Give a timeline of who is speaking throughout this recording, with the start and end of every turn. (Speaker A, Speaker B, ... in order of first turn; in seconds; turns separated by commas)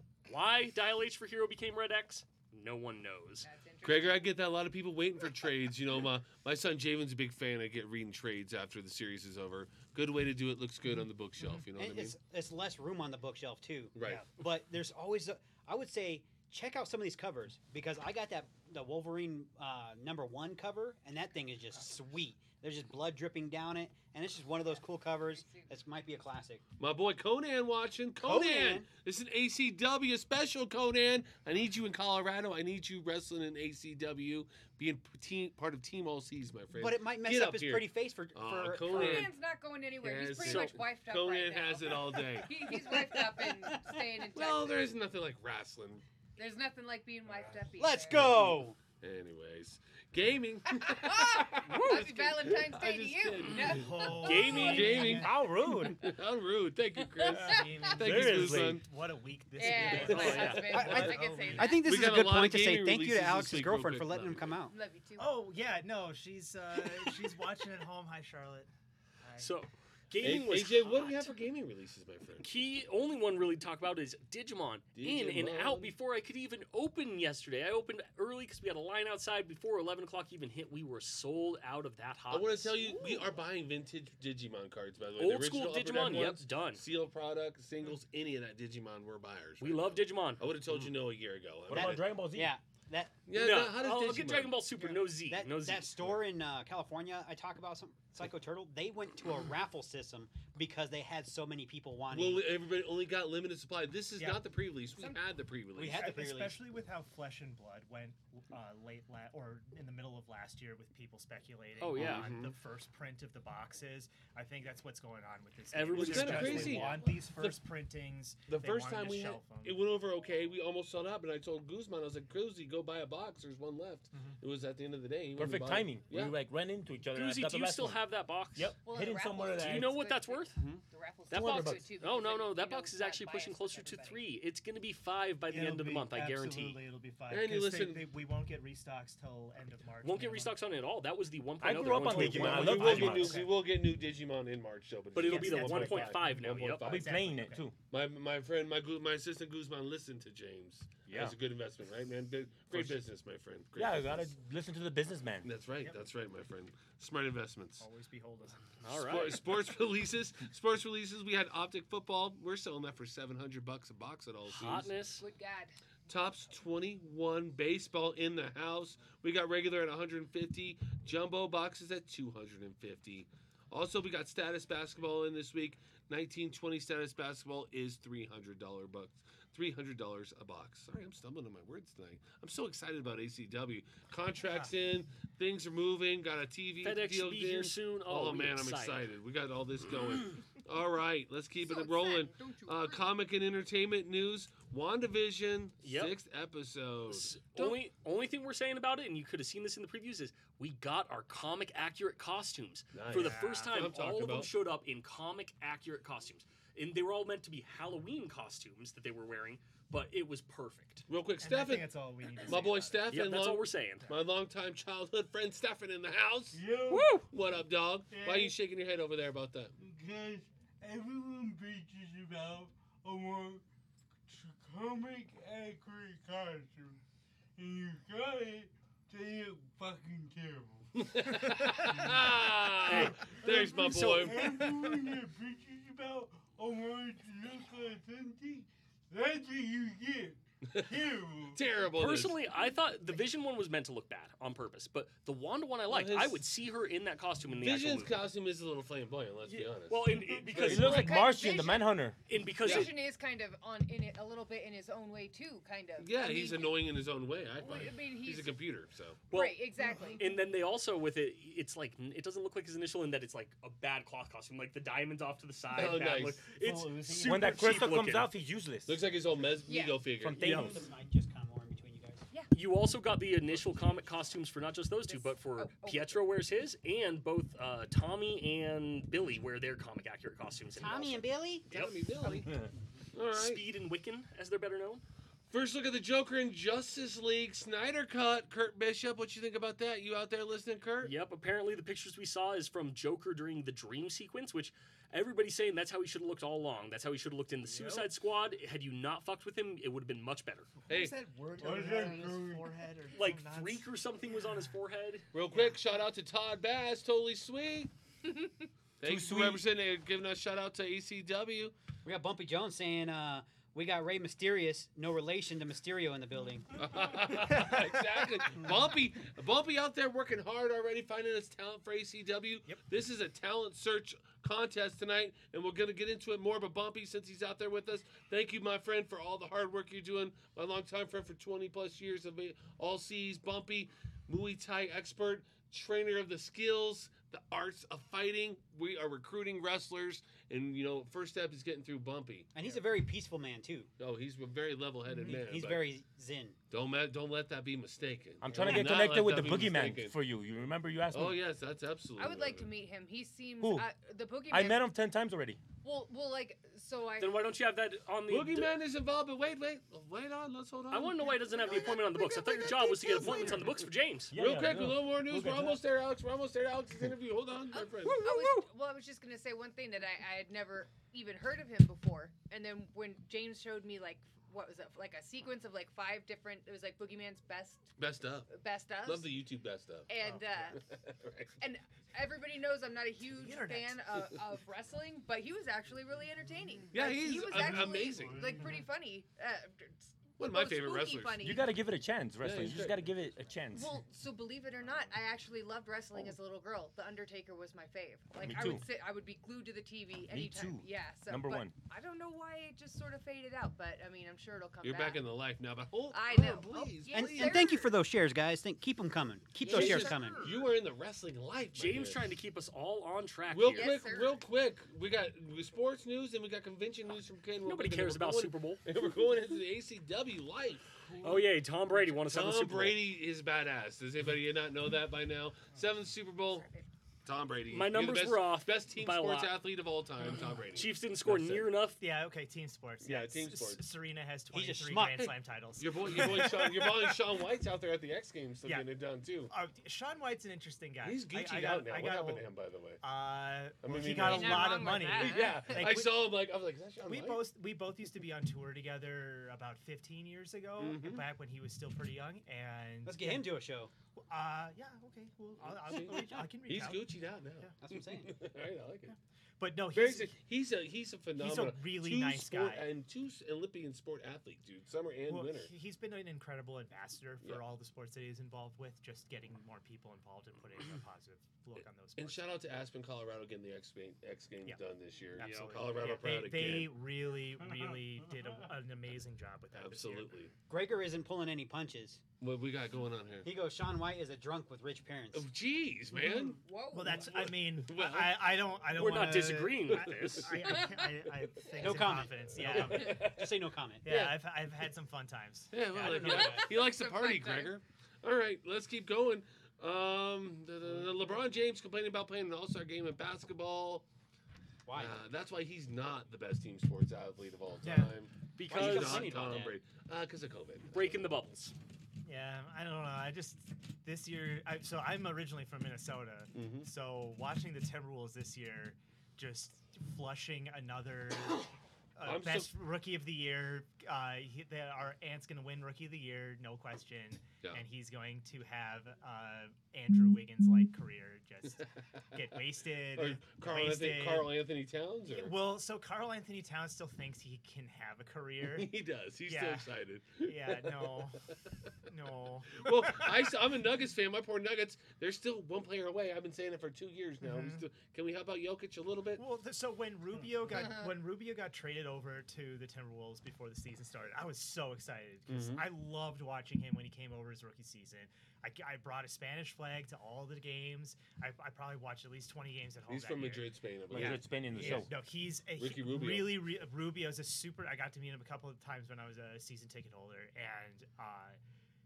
Speaker A: 0.2-3.5, Speaker B: 3.4-4.4, Speaker C: 3.8-12.2, Speaker D: 11.4-11.6, Speaker E: 11.8-26.6, Speaker C: 13.9-14.3, Speaker B: 25.0-25.8, Speaker C: 26.8-39.4, Speaker E: 28.2-28.9, Speaker E: 36.7-39.3, Speaker B: 38.9-44.9, Speaker C: 40.0-42.9, Speaker A: 40.4-40.8, Speaker E: 42.8-44.0, Speaker C: 44.3-46.0, Speaker B: 46.4-48.4, Speaker D: 47.3-47.6, Speaker E: 47.8-48.8, Speaker C: 48.2-58.8, Speaker B: 50.8-54.8, Speaker A: 51.7-52.2, Speaker A: 53.4-55.0, Speaker D: 53.6-55.4, Speaker F: 54.5-56.1, Speaker B: 57.0-58.0, Speaker D: 57.2-61.8, Speaker F: 58.0-58.8, Speaker B: 59.6-62.0, Speaker A: 59.7-60.9, Speaker C: 60.1-60.6, Speaker E: 60.7-64.8, Speaker C: 61.8-64.6, Speaker B: 64.7-65.3, Speaker D: 65.2-68.7, Speaker D: 69.2-69.5, Speaker A: 69.4-71.3, Speaker C: 70.2-72.5, Speaker A: 72.4-82.8, Speaker C: 74.9-75.9, Speaker C: 82.3-92.1, Speaker B: 82.8-83.4, Speaker A: 85.2-86.8, Speaker A: 89.6-90.5, Speaker F: 91.7-92.5, Speaker E: 91.7-93.2, Speaker C: 93.3-94.6, Speaker A: 93.3-95.9, Speaker E: 94.8-102.5, Speaker C: 102.1-106.1, Speaker B: 104.9-105.2, Speaker E: 105.8-106.6, Speaker D: 105.9-119.8, Speaker A: 111.8-112.3, Speaker C: 111.9-112.5, Speaker A: 115.7-117.0, Speaker C: 115.9-117.6, Speaker C: 118.5-126.4, Speaker F: 125.4-128.0, Speaker A: 127.1-128.7, Speaker F: 128.6-130.0, Speaker B: 128.8-134.2, Speaker A: 129.6-130.5, Speaker C: 130.6-130.8, Speaker F: 131.3-131.8, Speaker A: 131.3-136.8, Speaker D: 135.5-140.5, Speaker C: 137.3-138.1, Speaker A: 140.0-143.1, Speaker F: 141.6-143.5, Speaker C: 142.1-147.3, Speaker D: 142.3-143.5, Speaker A: 145.1-146.9, Speaker D: 145.2-147.7, Speaker F: 146.8-147.8, Speaker C: 147.9-154.3, Speaker F: 151.1-151.3, Speaker F: 152.7-153.0, Speaker F: 153.8-155.5, Speaker C: 155.4-157.8, Speaker D: 157.8-158.7, Speaker A: 158.8-159.4, Speaker C: 158.9-164.9, Speaker A: 164.5-165.2, Speaker B: 165.2-165.8, Speaker C: 166.1-197.8, Speaker D: 184.4-184.7, Speaker A: 186.8-189.1, Speaker B: 191.6-193.2, Speaker A: 195.8-196.2, Speaker A: 197.1-211.1, Speaker C: 202.9-204.5, Speaker D: 203.1-203.8, Speaker C: 211.1-216.6, Speaker D: 211.4-213.2, Speaker A: 213.1-214.1, Speaker G: 216.5-217.2, Speaker A: 216.9-217.3, Speaker C: 217.2-219.8, Speaker G: 218.1-218.5, Speaker G: 219.8-223.6, Speaker G: 224.3-227.0, Speaker G: 227.6-231.0, Speaker C: 230.9-234.5, Speaker G: 231.8-241.6, Speaker A: 232.8-234.5, Speaker C: 241.5-242.4, Speaker A: 241.9-248.2, Speaker C: 245.9-246.4, Speaker C: 247.6-251.0, Speaker A: 249.9-251.2, Speaker G: 250.1-250.8, Speaker F: 250.6-252.2, Speaker B: 250.8-252.0, Speaker A: 252.3-252.9, Speaker B: 252.6-256.8, Speaker C: 252.7-252.9, Speaker C: 256.0-259.3, Speaker B: 257.6-258.6, Speaker B: 259.3-260.2, Speaker A: 259.3-268.3, Speaker G: 259.9-260.1, Speaker C: 265.7-266.5, Speaker G: 266.8-267.5, Speaker F: 267.2-269.0, Speaker C: 268.9-270.8, Speaker B: 269.6-270.1, Speaker F: 270.1-270.8, Speaker E: 270.2-272.2, Speaker A: 272.5-281.9, Speaker B: 275.1-276.2, Speaker E: 280.8-281.7, Speaker C: 281.7-282.6, Speaker B: 282.2-282.5, Speaker C: 283.1-283.6, Speaker A: 283.3-285.0, Speaker C: 285.5-291.1, Speaker A: 291.0-300.7, Speaker D: 297.7-298.1, Speaker D: 300.8-304.8, Speaker C: 300.9-301.1, Speaker G: 301.6-302.7, Speaker A: 303.1-305.3, Speaker C: 305.3-307.9, Speaker D: 305.5-305.8, Speaker C: 309.0-311.7, Speaker F: 309.0-309.6, Speaker E: 312.1-316.7, Speaker C: 316.7-342.5, Speaker D: 317.5-318.0, Speaker E: 342.5-343.9, Speaker C: 344.0-345.9, Speaker D: 345.1-345.4, Speaker E: 345.2-346.6, Speaker C: 346.7-350.2, Speaker F: 348.4-351.4, Speaker C: 351.1-352.7, Speaker B: 352.2-354.8, Speaker F: 353.6-353.9, Speaker F: 354.5-355.6, Speaker B: 355.8-357.4, Speaker A: 357.2-358.8, Speaker C: 358.3-361.3, Speaker A: 360.9-364.3, Speaker B: 361.4-363.7, Speaker F: 364.3-365.8, Speaker C: 364.4-368.2, Speaker B: 367.7-377.9, Speaker A: 368.1-368.7, Speaker C: 378.0-378.5, Speaker B: 378.5-379.4, Speaker C: 379.0-380.1, Speaker B: 380.1-380.8, Speaker D: 380.2-380.8, Speaker C: 380.8-381.6, Speaker B: 381.6-391.8, Speaker D: 383.4-384.0, Speaker C: 386.9-388.5, Speaker G: 387.5-388.9, Speaker C: 390.4-391.4, Speaker F: 391.4-393.9, Speaker C: 392.4-393.1, Speaker B: 393.7-405.3, Speaker F: 398.4-398.8, Speaker F: 400.3-401.8, Speaker C: 404.8-407.7, Speaker B: 406.1-407.9, Speaker E: 407.1-410.4, Speaker A: 409.6-410.3, Speaker B: 409.7-410.7, Speaker C: 409.7-412.2, Speaker A: 411.7-414.1, Speaker C: 413.5-420.9, Speaker B: 413.7-414.4, Speaker A: 417.6-418.8, Speaker A: 421.2-423.0, Speaker C: 422.2-426.7, Speaker B: 426.5-426.9, Speaker C: 427.2-431.7, Speaker A: 427.7-429.6, Speaker A: 430.7-432.0, Speaker D: 432.0-437.2, Speaker C: 433.0-433.8, Speaker E: 434.5-435.3, Speaker C: 435.2-439.5, Speaker D: 439.5-442.4, Speaker C: 441.0-443.0, Speaker D: 443.0-446.3, Speaker C: 443.8-447.4, Speaker B: 444.2-445.8, Speaker D: 447.1-453.5, Speaker C: 450.8-451.3, Speaker E: 453.1-453.9, Speaker D: 454.2-457.1, Speaker C: 455.6-459.1, Speaker E: 457.8-458.3, Speaker D: 459.1-460.3, Speaker C: 459.9-465.7, Speaker D: 461.4-462.9, Speaker D: 465.3-472.4, Speaker C: 472.2-476.9, Speaker D: 475.4-480.3, Speaker A: 475.4-475.8, Speaker C: 479.7-480.5, Speaker E: 480.7-482.2, Speaker C: 482.4-483.5, Speaker E: 483.4-485.4, Speaker C: 485.3-486.6, Speaker B: 486.4-487.5, Speaker D: 486.9-493.3, Speaker C: 487.2-488.6, Speaker A: 488.9-490.8, Speaker C: 490.1-490.4, Speaker B: 490.8-491.1, Speaker E: 491.8-494.1, Speaker C: 492.6-493.5, Speaker D: 494.0-496.6, Speaker C: 494.1-494.4, Speaker C: 495.7-504.1, Speaker E: 496.0-496.7, Speaker B: 496.1-497.8, Speaker E: 504.9-505.2, Speaker C: 504.9-511.2, Speaker D: 507.8-508.1, Speaker A: 508.6-509.6, Speaker E: 508.7-509.8, Speaker A: 510.9-511.7, Speaker D: 512.2-534.5, Speaker C: 516.5-516.9, Speaker C: 522.2-522.7, Speaker C: 533.1-535.6, Speaker D: 535.3-538.9, Speaker C: 538.6-541.2, Speaker D: 539.5-541.4, Speaker D: 542.1-543.5, Speaker C: 542.8-549.4, Speaker D: 547.4-547.9, Speaker D: 549.4-571.6, Speaker B: 550.7-551.1, Speaker C: 555.5-555.9, Speaker C: 563.1-565.1, Speaker F: 564.1-565.1, Speaker C: 565.8-566.6